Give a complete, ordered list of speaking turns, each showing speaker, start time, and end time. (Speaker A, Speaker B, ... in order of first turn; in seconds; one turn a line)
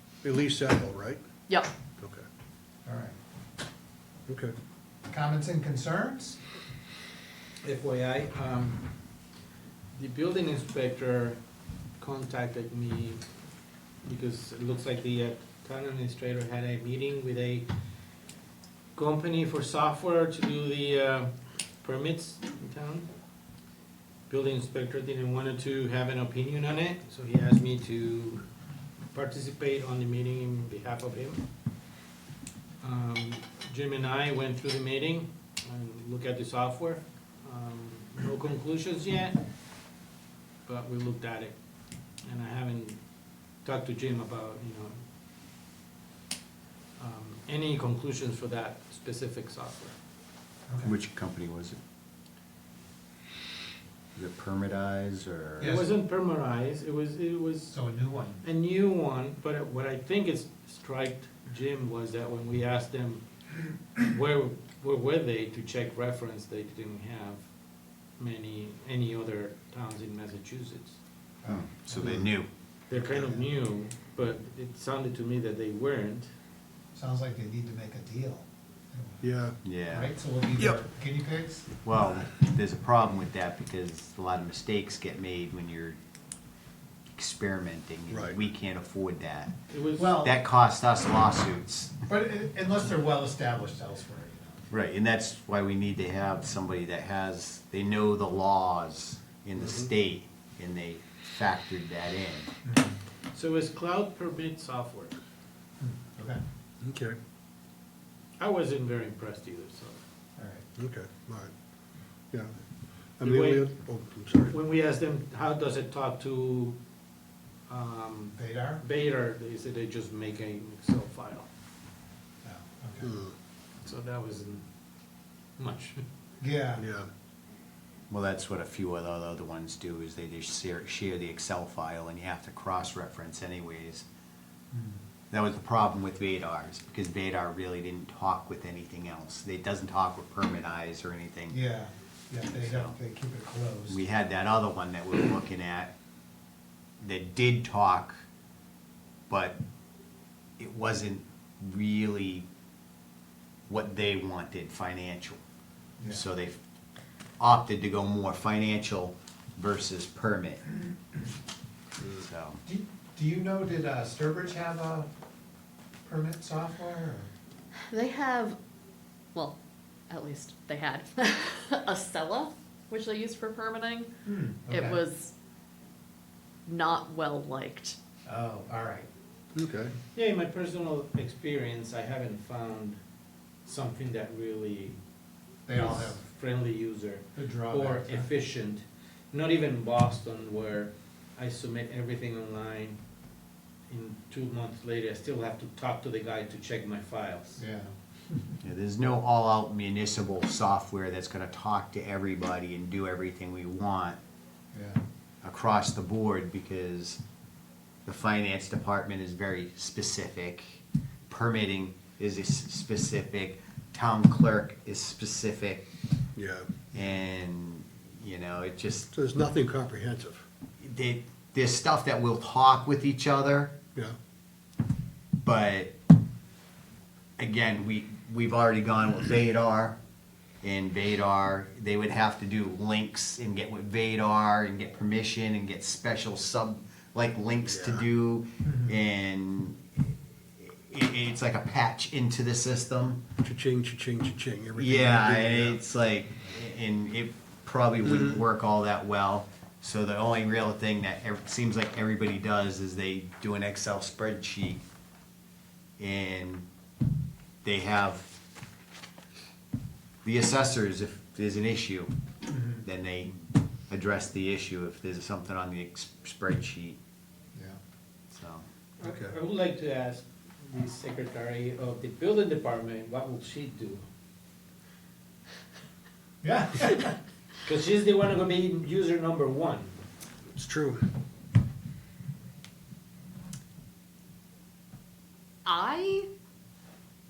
Speaker A: 0.2-1.2
Speaker A: 2.0-2.2
Speaker B: 2.9-3.1
Speaker A: 4.3-4.5
Speaker B: 5.1-6.4
Speaker C: 7.6-8.9
Speaker C: 9.9-11.4
Speaker C: 12.0-13.2
Speaker C: 14.0-17.7
Speaker C: 18.9-23.1
Speaker C: 24.3-28.4
Speaker C: 29.1-31.4
Speaker C: 32.8-39.5
Speaker C: 40.6-41.5
Speaker C: 42.2-43.0
Speaker C: 43.6-45.0
Speaker C: 47.0-49.9
Speaker B: 50.7-50.9
Speaker D: 50.8-51.8
Speaker D: 54.1-55.8
Speaker B: 55.6-55.9
Speaker C: 55.6-57.7
Speaker B: 57.7-58.4
Speaker C: 58.4-63.2
Speaker C: 64.0-67.4
Speaker C: 68.2-71.0
Speaker B: 71.4-72.2
Speaker D: 71.5-72.5
Speaker C: 72.9-76.3
Speaker B: 72.9-73.5
Speaker B: 76.9-79.2
Speaker A: 79.2-79.6
Speaker D: 79.6-80.1
Speaker B: 79.9-81.7
Speaker D: 81.8-86.0
Speaker D: 87.2-89.5
Speaker A: 88.1-88.4
Speaker C: 89.7-90.1
Speaker B: 90.0-90.3
Speaker D: 90.2-92.0
Speaker B: 92.1-94.7
Speaker D: 94.7-102.5
Speaker A: 99.6-99.9
Speaker B: 102.6-103.0
Speaker C: 103.3-105.2
Speaker B: 105.8-106.4
Speaker A: 106.8-107.2
Speaker C: 108.4-110.0
Speaker B: 110.4-110.6
Speaker A: 110.8-111.5
Speaker A: 113.2-114.5
Speaker C: 113.2-113.7
Speaker C: 114.4-116.8
Speaker C: 117.7-121.5
Speaker B: 118.3-118.8
Speaker B: 122.4-123.1
Speaker A: 123.0-123.3
Speaker C: 123.8-124.7
Speaker C: 125.6-126.0
Speaker B: 126.4-126.8
Speaker A: 126.8-127.1
Speaker D: 128.1-134.0
Speaker B: 134.7-135.0
Speaker D: 135.3-141.6
Speaker B: 141.5-144.0
Speaker D: 142.5-142.9
Speaker D: 143.9-145.9
Speaker D: 147.0-148.2
Speaker D: 149.3-149.6
Speaker D: 150.6-152.4
Speaker D: 153.7-155.4
Speaker B: 156.0-156.2
Speaker D: 156.1-156.6
Speaker D: 157.4-160.6
Speaker A: 162.0-162.2
Speaker D: 162.2-162.6
Speaker B: 162.7-165.1
Speaker B: 166.0-167.3
Speaker E: 167.9-168.6
Speaker E: 170.1-174.1
Speaker B: 174.2-175.0
Speaker E: 174.7-175.3
Speaker E: 176.7-177.9
Speaker B: 178.2-179.1
Speaker A: 179.5-179.9
Speaker C: 180.1-183.0
Speaker C: 183.6-185.0
Speaker B: 185.7-186.2
Speaker C: 185.7-193.0
Speaker B: 187.3-188.3
Speaker C: 193.9-197.6
Speaker B: 197.6-198.6
Speaker D: 198.6-204.2
Speaker B: 204.7-205.0
Speaker D: 205.4-207.2
Speaker D: 208.1-215.8
Speaker A: 216.3-216.7
Speaker D: 216.9-219.1
Speaker A: 219.1-220.4
Speaker D: 220.8-223.7
Speaker D: 225.4-225.9
Speaker D: 227.4-229.9
Speaker D: 230.6-243.2
Speaker A: 237.6-238.1
Speaker B: 238.6-238.9
Speaker A: 243.4-245.8
Speaker D: 244.8-254.8
Speaker A: 248.0-248.4
Speaker D: 256.0-256.6
Speaker D: 257.6-258.3
Speaker D: 260.2-262.1
Speaker B: 262.5-262.8
Speaker D: 262.8-267.0
Speaker D: 268.3-268.6
Speaker C: 269.0-274.0
Speaker A: 269.0-269.3
Speaker B: 276.4-277.1
Speaker C: 277.6-279.9
Speaker A: 280.5-281.0
Speaker E: 285.6-286.3